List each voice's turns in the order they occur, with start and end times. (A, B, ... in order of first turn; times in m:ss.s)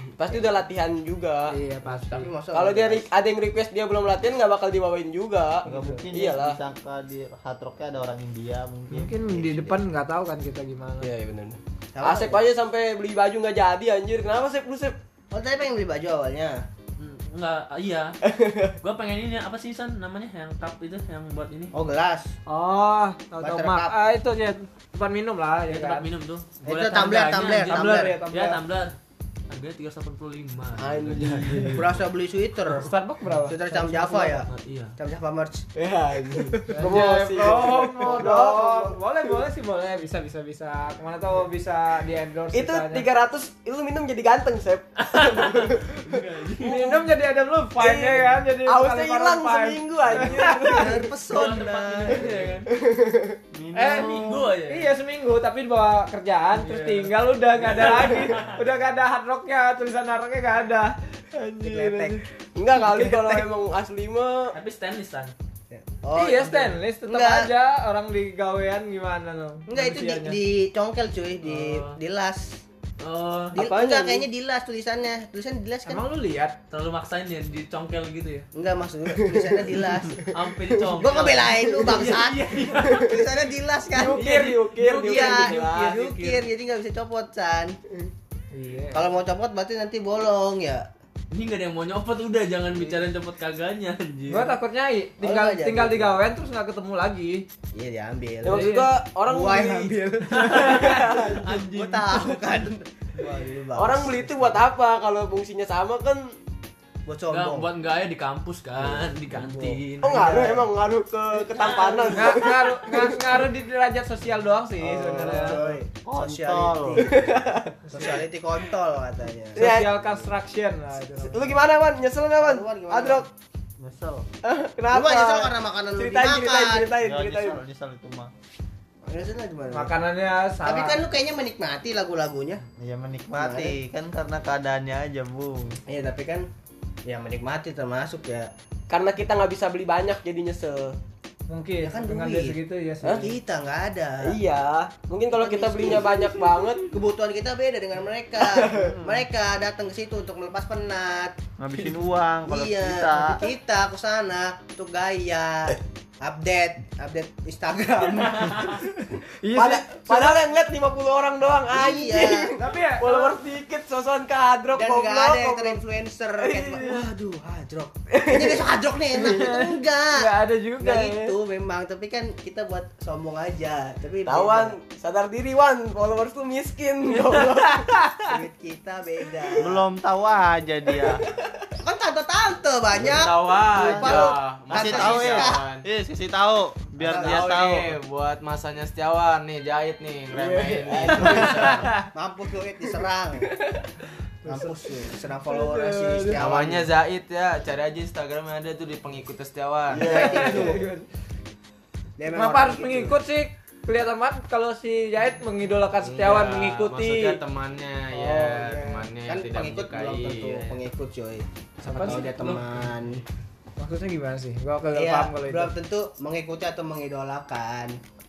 0:00.2-0:01.6 A
0:01.5-0:02.3 B
0:02.1-0:03.1 C
0:02.5-0:06.6 A
0:05.6-0:09.8 D
0:05.7-0:06.0 B
0:08.9-0:11.1 B
0:11.0-0:15.0 A
0:11.9-0:12.4 C
0:15.3-0:16.6 C
0:17.0-0:18.1 E
0:18.2-0:18.8 A
0:18.8-0:21.7 E
0:21.7-0:22.3 C
0:22.5-0:26.1 B
0:23.4-0:24.0 C
0:25.7-0:29.0 E
0:26.6-0:28.2 C
0:27.5-0:28.6 B
0:29.5-0:31.9 E
0:30.8-0:31.9 A
0:31.7-0:32.9 C
0:32.7-0:34.4 B
0:33.4-0:35.7 C
0:34.5-0:35.0 E
0:35.8-0:39.0 A
0:36.7-0:43.1 B
0:42.5-0:47.1 A
0:45.0-0:47.0 E
0:46.6-0:51.0 B
0:47.8-0:51.1 A
0:50.6-0:52.3 C
0:50.9-0:52.6 D
0:51.2-0:52.7 E
0:52.8-0:53.4 A
0:53.5-0:54.6 D
0:53.8-1:02.2 B
0:53.8-0:54.9 E
0:56.5-0:58.6 E
1:01.6-1:02.2 C
1:02.6-1:04.5 A
1:03.0-1:03.4 B
1:04.5-1:05.3 E
1:05.7-1:07.5 C
1:06.2-1:10.4 B
1:09.7-1:12.6 C
1:11.5-1:12.0 E
1:13.0-1:13.6 E
1:13.5-1:16.0 C
1:13.6-1:14.1 B
1:15.9-1:16.6 B
1:16.7-1:18.5 E
1:18.6-1:20.3 C
1:19.2-1:19.6 A
1:20.2-1:23.1 E
1:20.8-1:24.2 C
1:24.0-1:26.0 A
1:24.2-1:26.4 E
1:25.0-1:27.8 C
1:28.5-1:29.1 B
1:28.9-1:30.9 C
1:31.3-1:34.6 E
1:32.8-1:33.0 C
1:34.3-1:37.4 B
1:35.2-1:36.2 C
1:37.7-1:44.6 C
1:38.4-1:41.4 A
1:38.5-1:38.9 B
1:40.3-1:42.4 E
1:43.8-1:46.3 A
1:47.1-1:47.7 C
1:47.3-1:50.4 E
1:48.8-1:50.7 C
1:50.0-1:53.3 A
1:51.6-1:52.1 E
1:52.1-1:55.6 B
1:54.9-1:57.2 C
1:55.2-1:57.0 D
1:57.0-1:58.1 A
1:57.9-1:59.8 C
1:59.6-2:00.0 A
1:59.6-2:01.6 B
2:01.2-2:03.3 A
2:02.4-2:03.3 C
2:03.8-2:04.3 D
2:04.4-2:07.6 A
2:04.9-2:07.0 C
2:07.0-2:08.3 D
2:09.0-2:09.9 C
2:09.7-2:11.0 B
2:10.6-2:12.6 C
2:12.8-2:15.8 D
2:13.3-2:13.8 C
2:15.9-2:16.5 C
2:17.1-2:18.5 C
2:18.9-2:21.0 A
2:21.5-2:23.3 B
2:21.8-2:22.6 C
2:23.2-2:24.4 C
2:24.2-2:26.9 A
2:25.3-2:31.4 C
2:28.4-2:29.0 A
2:31.6-2:33.4 D
2:32.5-2:38.8 C
2:39.1-2:40.4 B
2:39.5-2:45.8 A
2:41.7-2:42.6 C
2:42.6-2:43.4 B
2:44.7-2:54.8 C
2:46.4-2:47.1 A
2:48.1-2:48.6 A
2:49.2-2:51.4 B
2:54.3-2:57.9 A
2:57.3-2:58.4 B
2:58.3-2:59.8 C
2:59.6-3:01.2 D
3:01.8-3:05.6 C
3:03.0-3:05.8 F
3:03.8-3:04.3 A
3:04.1-3:08.0 D
3:07.0-3:07.5 C
3:07.1-3:11.9 F
3:07.2-3:07.5 A
3:10.3-3:11.9 A
3:11.0-3:13.5 C
3:14.4-3:14.9 B
3:14.5-3:16.9 C
3:15.5-3:16.4 A
3:16.4-3:20.5 F
3:19.9-3:20.8 A
3:20.0-3:20.8 C
3:20.1-3:21.0 B
3:22.2-3:23.2 C
3:22.3-3:27.4 B
3:26.0-3:30.8 F
3:28.2-3:33.2 C
3:31.8-3:32.3 B
3:32.0-3:32.7 E
3:33.8-3:35.7 B
3:34.9-3:38.0 C